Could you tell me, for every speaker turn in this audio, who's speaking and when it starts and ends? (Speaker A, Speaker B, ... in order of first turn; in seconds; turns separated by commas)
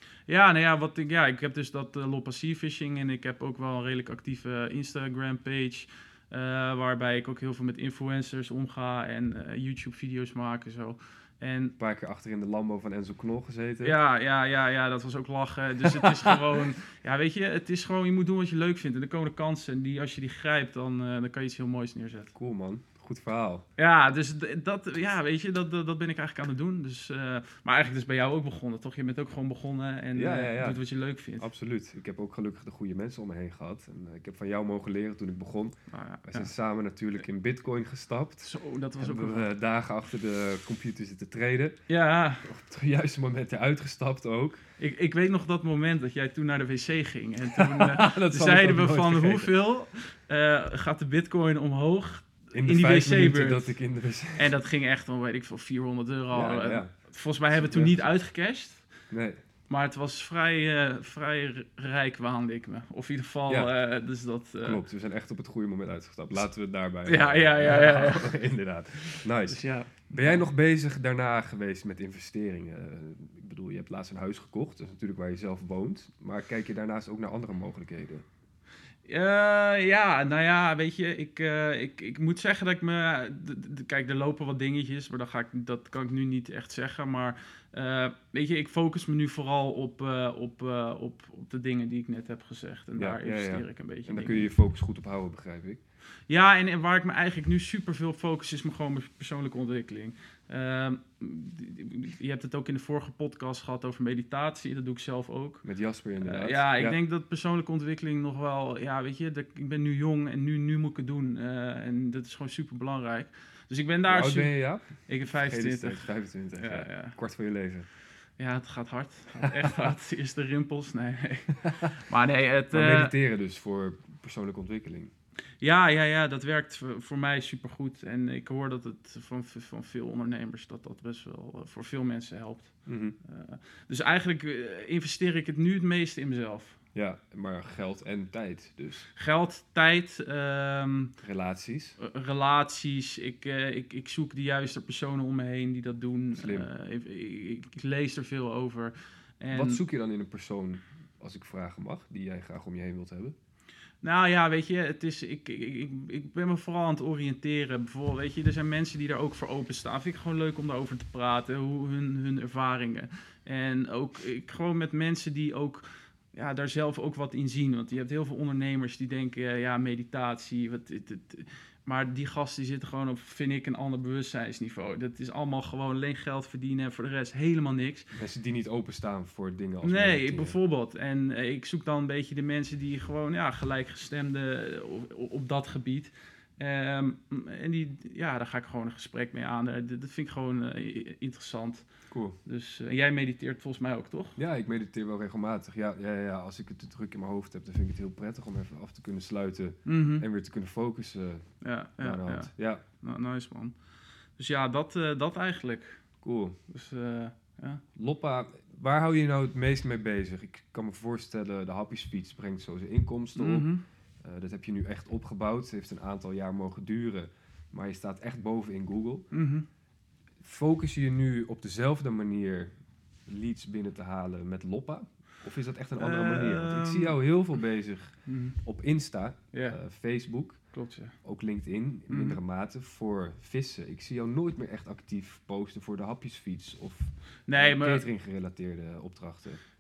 Speaker A: 0.3-11.8, Speaker B: 11.8-14.0, Speaker A: 13.8-22.3, Speaker B: 15.9-16.6, Speaker B: 22.4-23.6, Speaker A: 23.8-31.5, Speaker B: 30.2-30.8, Speaker B: 31.4-35.8, Speaker A: 35.9-36.5, Speaker B: 36.3-41.8, Speaker A: 38.4-39.5, Speaker A: 41.9-42.5, Speaker B: 42.4-44.6, Speaker A: 44.8-53.8, Speaker B: 47.5-49.5, Speaker B: 52.5-54.6, Speaker A: 54.4-58.9, Speaker B: 56.3-56.9, Speaker B: 57.5-58.1, Speaker B: 59.1-59.4, Speaker A: 59.7-64.8, Speaker B: 63.5-63.7, Speaker B: 64.6-78.2, Speaker A: 67.0-68.4, Speaker A: 69.1-70.5, Speaker A: 79.1-94.5, Speaker B: 93.0-95.8, Speaker A: 96.3-105.6, Speaker B: 105.6-107.0, Speaker A: 106.2-114.5, Speaker B: 114.1-117.9, Speaker A: 115.1-117.2, Speaker A: 118.4-123.1, Speaker B: 119.5-119.8, Speaker B: 122.7-125.1, Speaker A: 125.6-132.7, Speaker B: 132.9-133.2, Speaker A: 133.2-136.8, Speaker B: 136.9-139.1, Speaker A: 139.2-141.1, Speaker B: 141.2-142.0, Speaker A: 142.0-149.8, Speaker B: 146.3-146.7, Speaker B: 149.5-153.3, Speaker A: 154.0-178.2, Speaker B: 178.2-180.6, Speaker A: 179.8-191.9, Speaker B: 192.1-192.4, Speaker A: 192.4-194.4, Speaker B: 194.4-201.4, Speaker A: 199.9-200.3, Speaker A: 201.6-203.7, Speaker B: 202.0-202.8, Speaker A: 204.4-206.0, Speaker B: 206.2-206.6, Speaker A: 206.7-207.8, Speaker B: 208.0-213.7, Speaker A: 213.4-213.8, Speaker B: 214.2-219.3, Speaker A: 219.3-219.7, Speaker B: 220.4-222.7, Speaker B: 223.3-228.1, Speaker A: 226.0-227.2, Speaker A: 228.3-228.6, Speaker B: 228.6-230.6, Speaker A: 229.5-229.8, Speaker A: 230.7-231.2, Speaker B: 231.2-239.6, Speaker A: 232.1-232.4, Speaker A: 237.5-238.1